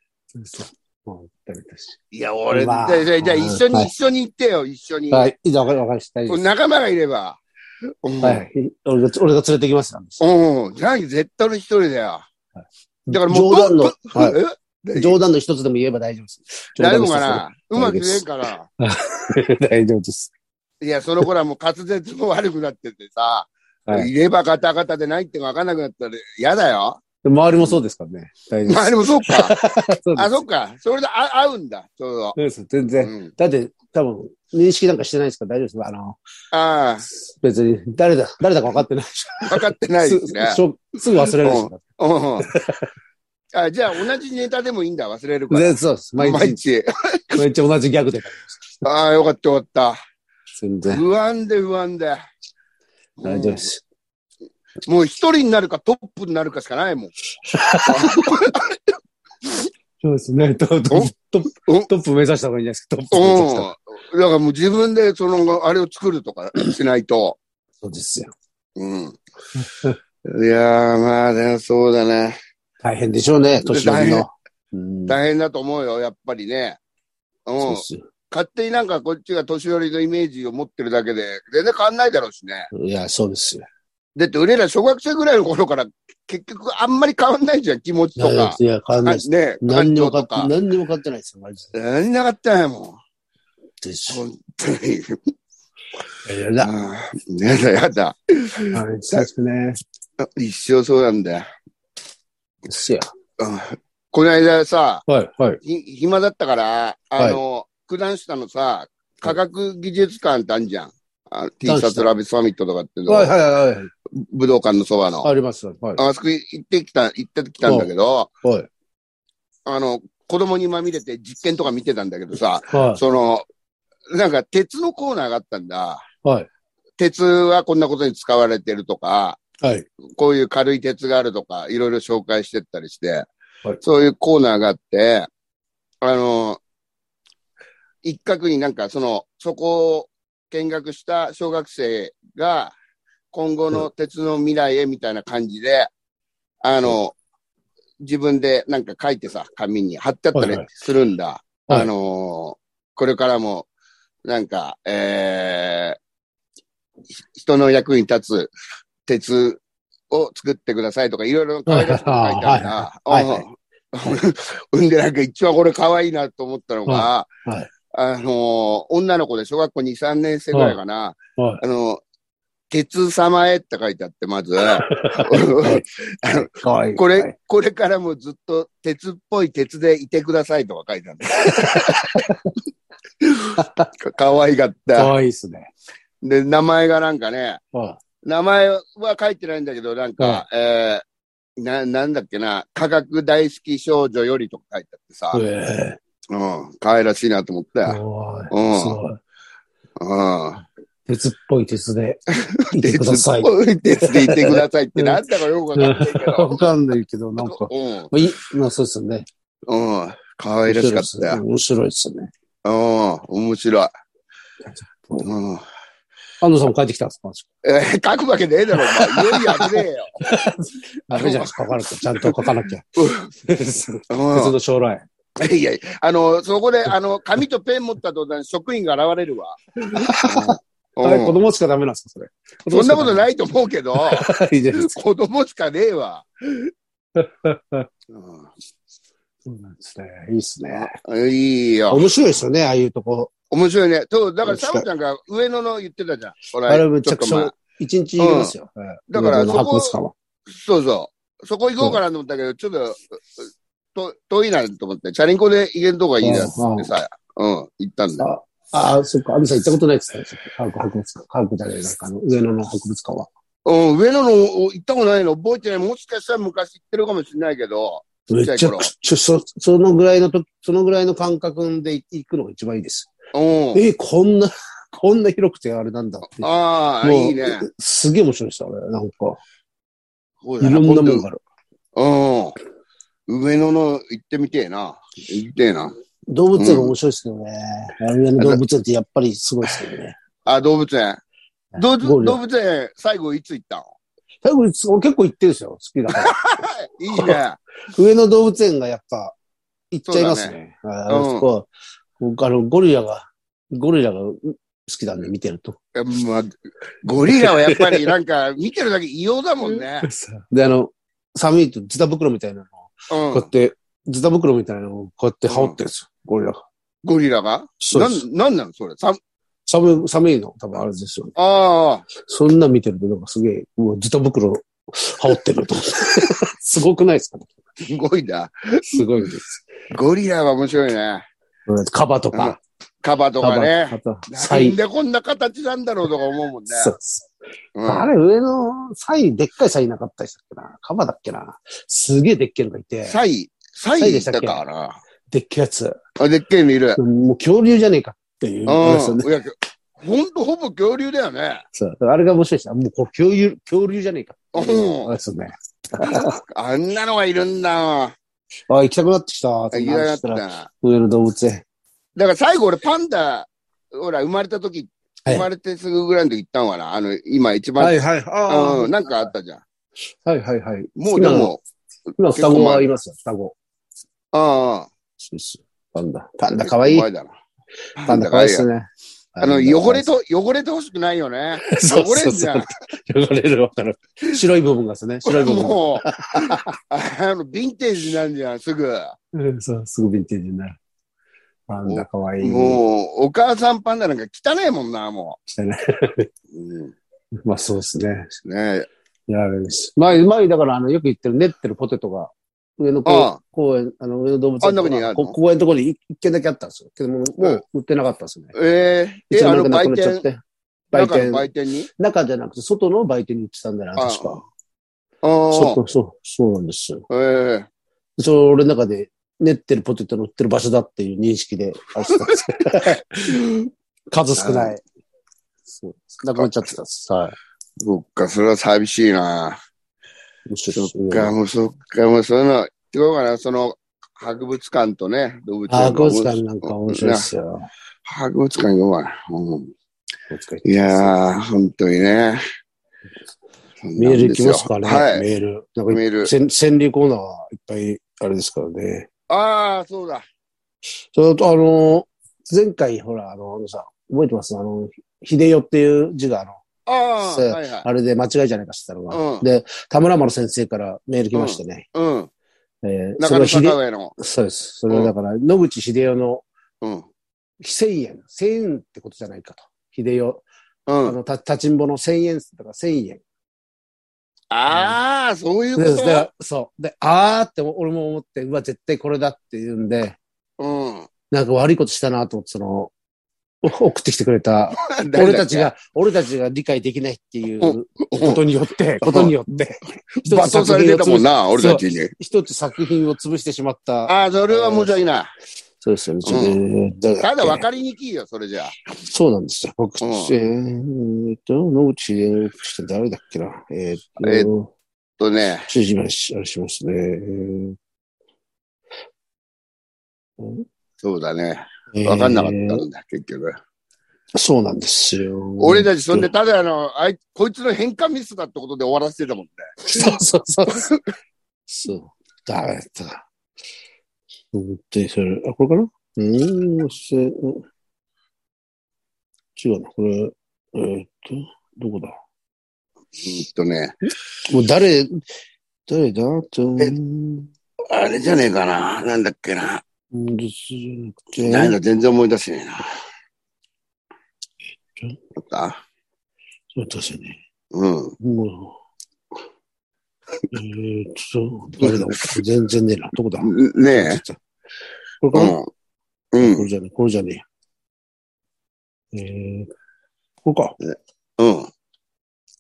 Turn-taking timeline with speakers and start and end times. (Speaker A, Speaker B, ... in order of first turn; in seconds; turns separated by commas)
Speaker A: 0.3-2.0, Speaker B: 2.1-5.3, Speaker A: 2.5-3.9, Speaker A: 5.1-6.5, Speaker B: 6.3-7.4, Speaker B: 8.0-8.4, Speaker A: 8.2-10.2, Speaker B: 10.2-12.2, Speaker A: 13.1-14.4, Speaker B: 13.1-15.2, Speaker A: 14.9-18.3, Speaker B: 16.8-18.7, Speaker A: 18.8-20.3, Speaker B: 20.8-27.0, Speaker A: 27.2-30.4, Speaker B: 28.7-29.6, Speaker B: 30.2-32.4, Speaker A: 32.4-36.2, Speaker B: 33.0-33.3, Speaker B: 36.5-37.0, Speaker A: 37.1-41.8, Speaker B: 39.5-40.6, Speaker B: 41.2-42.5, Speaker A: 42.4-42.9, Speaker B: 43.5-47.4, Speaker A: 45.5-46.6, Speaker A: 47.4-48.8, Speaker B: 48.8-50.0, Speaker A: 50.6-51.0, Speaker B: 50.9-52.2, Speaker B: 53.2-53.7, Speaker A: 53.2-53.8, Speaker B: 54.9-57.1, Speaker A: 57.5-58.5, Speaker B: 57.8-58.8, Speaker A: 60.0-63.7, Speaker B: 61.6-61.9, Speaker B: 63.1-67.4, Speaker A: 67.8-68.3, Speaker B: 68.8-69.2, Speaker A: 69.5-70.0, Speaker B: 70.2-72.4, Speaker A: 72.8-75.2, Speaker B: 73.6-74.3, Speaker B: 75.1-76.8, Speaker B: 77.5-82.7, Speaker A: 77.6-78.0, Speaker A: 82.7-83.7, Speaker B: 84.2-90.5, Speaker A: 88.2-91.7, Speaker B: 91.7-93.0, Speaker A: 93.8-94.2, Speaker B: 94.1-95.2, Speaker A: 96.2-96.7, Speaker B: 96.6-99.3, Speaker A: 98.7-99.8, Speaker B: 100.2-101.5, Speaker A: 102.7-103.1, Speaker B: 103.4-105.0, Speaker A: 105.1-105.6, Speaker B: 105.6-113.3, Speaker A: 111.7-112.1, Speaker A: 113.1-113.9, Speaker B: 114.1-115.3, Speaker A: 115.2-116.0, Speaker B: 116.0-118.3, Speaker A: 118.4-118.7, Speaker B: 119.7-123.5, Speaker A: 122.7-123.0, Speaker B: 124.1-126.0, Speaker B: 127.0-129.4, Speaker B: 130.2-133.3, Speaker B: 133.8-135.3, Speaker B: 136.0-136.6, Speaker B: 138.0-142.8, Speaker B: 143.3-145.9, Speaker B: 146.6-147.2, Speaker B: 148.0-153.7, Speaker A: 150.3-150.7, Speaker B: 154.3-156.0, Speaker B: 157.3-158.5, Speaker B: 159.1-167.3, Speaker A: 161.7-163.4, Speaker A: 166.9-167.7, Speaker B: 167.9-172.0, Speaker A: 170.5-170.8, Speaker B: 172.7-182.3, Speaker A: 174.8-177.3, Speaker A: 181.3-182.5, Speaker B: 183.2-185.1, Speaker A: 183.6-183.9, Speaker A: 184.9-185.7, Speaker B: 186.2-187.6, Speaker A: 187.7-188.0, Speaker B: 188.2-191.0, Speaker B: 191.6-195.4, Speaker A: 195.3-196.0, Speaker B: 196.3-198.0, Speaker A: 197.9-199.2, Speaker B: 198.5-199.0, Speaker B: 200.0-200.6, Speaker A: 201.1-205.2, Speaker B: 202.4-206.7, Speaker A: 205.8-209.3, Speaker B: 207.4-208.1, Speaker B: 209.7-211.4, Speaker A: 210.7-212.3, Speaker B: 212.6-213.9, Speaker A: 214.8-215.3, Speaker B: 215.2-215.7, Speaker A: 216.4-217.5, Speaker B: 217.6-220.2, Speaker A: 218.8-222.9, Speaker B: 221.1-223.3, Speaker A: 223.4-225.1, Speaker B: 224.1-224.5, Speaker B: 225.4-231.4, Speaker A: 229.9-233.3, Speaker B: 232.7-236.7, Speaker A: 234.0-234.9, Speaker A: 237.2-237.9, Speaker B: 238.1-238.5, Speaker A: 239.5-240.9, Speaker B: 240.7-242.1, Speaker A: 241.9-243.3, Speaker B: 243.5-247.5, Speaker A: 244.4-244.9, Speaker A: 246.7-250.1, Speaker B: 248.2-248.5, Speaker B: 249.1-249.9, Speaker B: 250.5-258.3, Speaker A: 256.2-256.9, Speaker A: 258.2-263.3, Speaker B: 263.6-268.9, Speaker A: 268.3-273.1, Speaker B: 273.3-273.8, Speaker A: 273.7-276.5, Speaker B: 276.4-277.7, Speaker A: 277.0-279.4, Speaker B: 280.4-281.3, Speaker A: 280.6-281.4, Speaker B: 281.9-282.6, Speaker B: 283.3-285.9, Speaker A: 286.3-290.2, Speaker B: 286.6-286.9, Speaker B: 290.5-291.2, Speaker A: 291.8-292.4, Speaker B: 291.8-293.9, Speaker A: 294.4-296.4, Speaker B: 296.1-297.6, Speaker A: 297.1-297.4, Speaker A: 297.9-299.4, Speaker A: 299.9-305.8, Speaker B: 300.1-300.5, Speaker B: 301.1-301.5, Speaker B: 305.9-310.1, Speaker A: 307.2-308.1, Speaker A: 309.7-316.6, Speaker B: 313.1-313.5, Speaker B: 315.5-315.8, Speaker B: 317.0-319.2, Speaker A: 317.8-318.2, Speaker A: 319.7-321.4, Speaker B: 321.4-322.1, Speaker A: 322.2-327.5, Speaker B: 327.8-329.0, Speaker A: 328.9-329.7, Speaker B: 329.9-331.2, Speaker A: 331.7-332.6, Speaker B: 332.3-336.9, Speaker A: 333.4-334.8, Speaker A: 336.7-337.3, Speaker B: 337.8-338.1, Speaker A: 337.9-343.2, Speaker B: 343.1-345.0, Speaker A: 344.0-344.6, Speaker A: 345.3-346.0, Speaker B: 346.2-347.0, Speaker A: 347.0-349.3, Speaker B: 348.7-351.6, Speaker A: 351.8-356.4, Speaker B: 354.5-355.1, Speaker B: 356.1-358.1, Speaker A: 358.7-361.6, Speaker B: 359.7-360.7, Speaker B: 362.2-368.0, Speaker A: 367.8-368.9, Speaker B: 368.5-369.6, Speaker A: 370.2-371.6, Speaker B: 371.0-371.6, Speaker A: 372.2-373.6, Speaker B: 372.3-372.9, Speaker B: 374.3-374.9, Speaker A: 375.2-377.1, Speaker B: 376.6-377.3, Speaker B: 378.0-378.7, Speaker A: 378.1-380.1, Speaker B: 379.4-382.7, Speaker A: 381.6-386.7, Speaker B: 385.2-389.2, Speaker A: 389.3-390.8, Speaker A: 391.7-392.8, Speaker B: 391.9-395.4, Speaker A: 395.5-396.3, Speaker B: 396.5-396.9, Speaker A: 397.4-398.3, Speaker B: 398.4-398.9, Speaker A: 399.3-408.5, Speaker B: 403.1-403.4, Speaker B: 404.6-405.4, Speaker B: 408.5-410.2, Speaker A: 409.3-410.4, Speaker A: 410.9-414.4, Speaker B: 410.9-411.9, Speaker B: 414.0-414.4, Speaker B: 415.2-415.8, Speaker A: 415.5-417.1, Speaker B: 417.1-417.7, Speaker A: 418.2-423.4, Speaker B: 423.3-423.7, Speaker A: 424.1-424.8, Speaker B: 424.4-424.7, Speaker A: 425.8-427.4, Speaker B: 427.8-429.6, Speaker A: 430.5-431.3, Speaker B: 430.7-437.3, Speaker A: 435.7-437.7, Speaker B: 438.1-439.7, Speaker A: 440.3-441.1, Speaker B: 440.6-442.4, Speaker B: 443.8-445.2, Speaker A: 444.0-449.1, Speaker B: 445.9-446.3, Speaker B: 449.3-450.2, Speaker A: 451.1-456.6, Speaker B: 456.9-457.9, Speaker A: 457.2-461.9, Speaker B: 459.1-459.4, Speaker B: 461.4-462.3, Speaker A: 462.8-466.5, Speaker B: 463.2-464.1, Speaker A: 467.6-470.5, Speaker B: 470.9-471.2, Speaker A: 471.0-473.2, Speaker B: 474.5-476.3, Speaker A: 474.7-475.0, Speaker A: 475.8-480.2, Speaker B: 480.6-481.1, Speaker A: 481.3-482.9, Speaker A: 483.6-494.9, Speaker B: 484.8-485.7, Speaker B: 487.6-488.4, Speaker B: 489.0-489.4, Speaker B: 490.2-492.1, Speaker B: 494.1-495.3, Speaker A: 495.8-497.6, Speaker B: 496.2-496.6, Speaker B: 497.2-498.8, Speaker A: 498.9-504.7, Speaker B: 500.0-500.3, Speaker B: 504.2-504.5, Speaker B: 505.2-505.7, Speaker A: 505.7-507.8, Speaker A: 510.4-510.6, Speaker B: 511.0-513.6, Speaker A: 511.9-512.8, Speaker A: 514.4-516.3, Speaker B: 515.6-520.1, Speaker A: 519.8-521.0, Speaker B: 520.7-521.0, Speaker A: 521.7-523.2, Speaker A: 524.5-527.6, Speaker A: 529.6-532.2, Speaker B: 533.2-534.0, Speaker A: 534.5-535.2, Speaker A: 535.9-537.5, Speaker B: 537.9-539.8, Speaker A: 540.1-541.8, Speaker B: 541.4-542.9, Speaker B: 545.4-545.8, Speaker A: 546.7-547.4, Speaker B: 547.7-548.1, Speaker A: 548.2-548.8, Speaker A: 550.5-554.4, Speaker B: 551.8-552.4, Speaker B: 553.4-554.2, Speaker A: 555.2-555.6, Speaker B: 555.3-555.7, Speaker B: 556.3-556.7, Speaker A: 556.4-557.4, Speaker A: 559.1-559.7, Speaker A: 560.5-560.8, Speaker B: 560.8-561.7